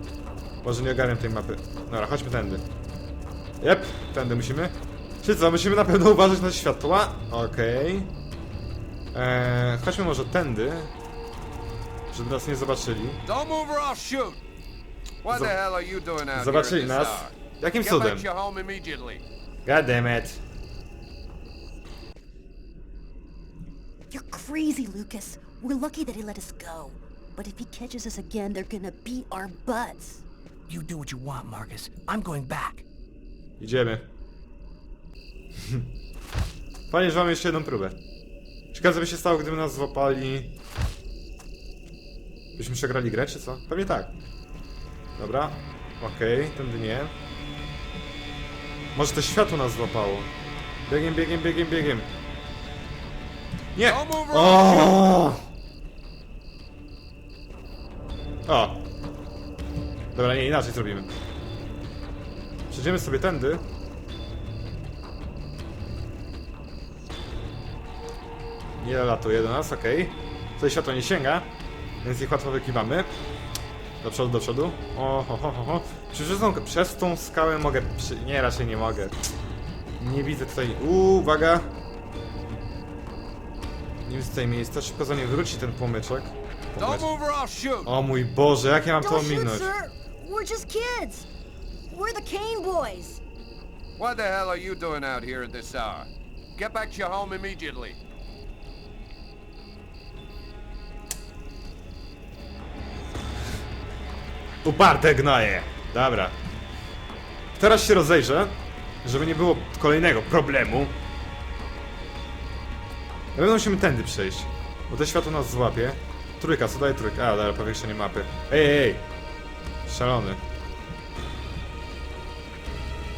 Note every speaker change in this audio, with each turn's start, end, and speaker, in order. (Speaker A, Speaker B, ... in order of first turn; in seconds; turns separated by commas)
Speaker A: 0.6-2.6, Speaker A: 3.6-8.1, Speaker A: 9.1-10.9, Speaker A: 12.1-13.2, Speaker B: 13.3-14.4, Speaker B: 15.2-19.2, Speaker A: 15.3-15.6, Speaker A: 16.3-18.3, Speaker A: 19.7-20.4, Speaker C: 24.1-30.2, Speaker D: 30.7-32.9, Speaker A: 33.6-34.1, Speaker A: 36.9-38.0, Speaker A: 38.7-40.5, Speaker A: 42.6-44.1, Speaker A: 45.2-47.1, Speaker A: 49.0-50.3, Speaker A: 50.9-52.1, Speaker A: 53.8-55.4, Speaker B: 53.9-55.1, Speaker A: 58.5-58.9, Speaker A: 60.1-61.1, Speaker A: 62.7-63.6, Speaker A: 68.8-71.5, Speaker A: 72.0-73.1, Speaker A: 74.0-79.2, Speaker A: 80.0-81.7, Speaker A: 84.0-87.1, Speaker B: 86.8-87.9, Speaker A: 87.8-89.7, Speaker E: 89.1-91.3, Speaker E: 91.9-93.2, Speaker B: 94.0-98.0, Speaker A: 104.6-106.4, Speaker A: 107.6-111.0, Speaker A: 113.3-119.1, Speaker A: 119.9-120.4